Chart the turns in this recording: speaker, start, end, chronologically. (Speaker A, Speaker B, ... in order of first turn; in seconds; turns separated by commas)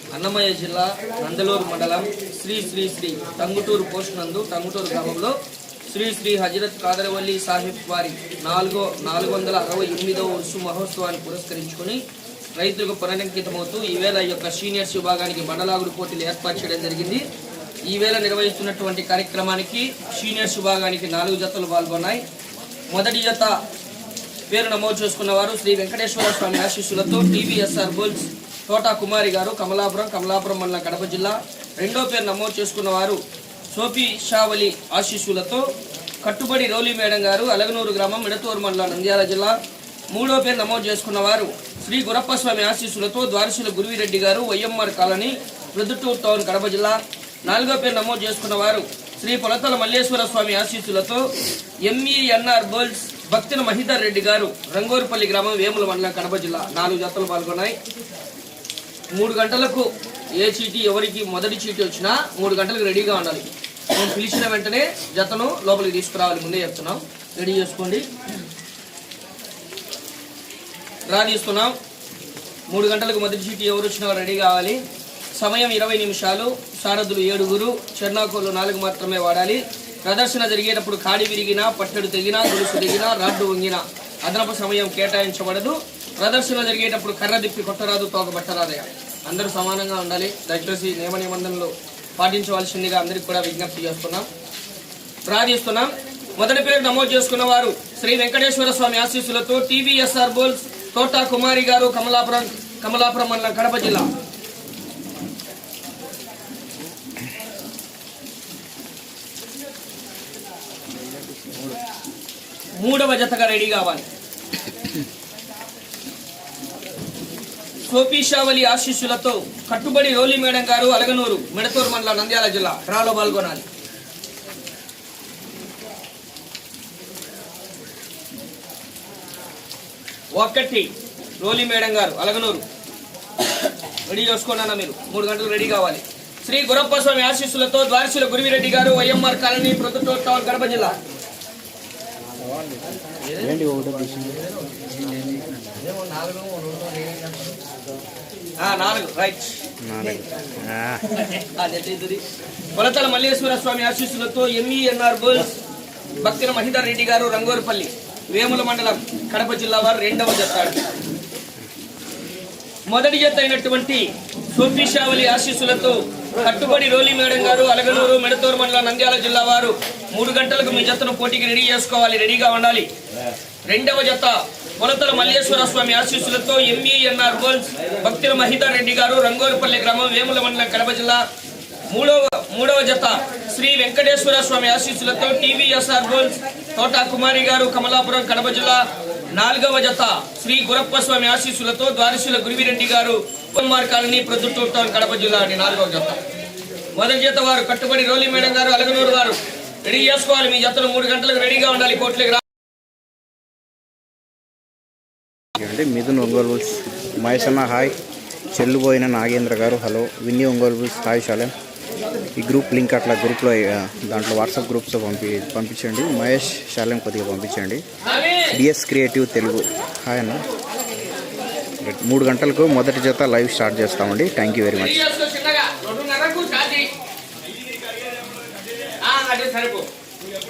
Speaker A: 0.1-5.3, Speaker A: 5.9-12.0, Speaker A: 12.6-17.2, Speaker A: 17.9-22.2, Speaker A: 22.9-23.5, Speaker A: 24.5-33.2, Speaker A: 33.7-35.6, Speaker A: 36.2-39.6, Speaker A: 40.1-51.3, Speaker A: 51.8-57.8, Speaker A: 59.1-68.1, Speaker A: 71.1-71.7, Speaker A: 72.7-74.8, Speaker A: 75.3-94.3, Speaker A: 95.3-104.1, Speaker A: 112.8-114.1, Speaker A: 117.9-123.7, Speaker A: 130.3-132.6, Speaker A: 134.0-140.9, Speaker A: 143.2-143.6, Speaker B: 143.4-144.5, Speaker A: 144.6-147.6, Speaker A: 148.6-149.6, Speaker B: 149.8-151.0, Speaker A: 151.3-152.2, Speaker A: 152.7-155.6, Speaker A: 156.2-160.8, Speaker A: 162.9-172.9, Speaker A: 173.7-181.3, Speaker A: 181.9-196.2, Speaker A: 196.9-202.4, Speaker B: 205.5-207.9, Speaker B: 208.5-211.5, Speaker B: 212.4-217.8, Speaker A: 218.0-218.6, Speaker B: 218.5-220.4, Speaker B: 221.8-225.0, Speaker A: 224.7-226.9, Speaker A: 229.0-229.9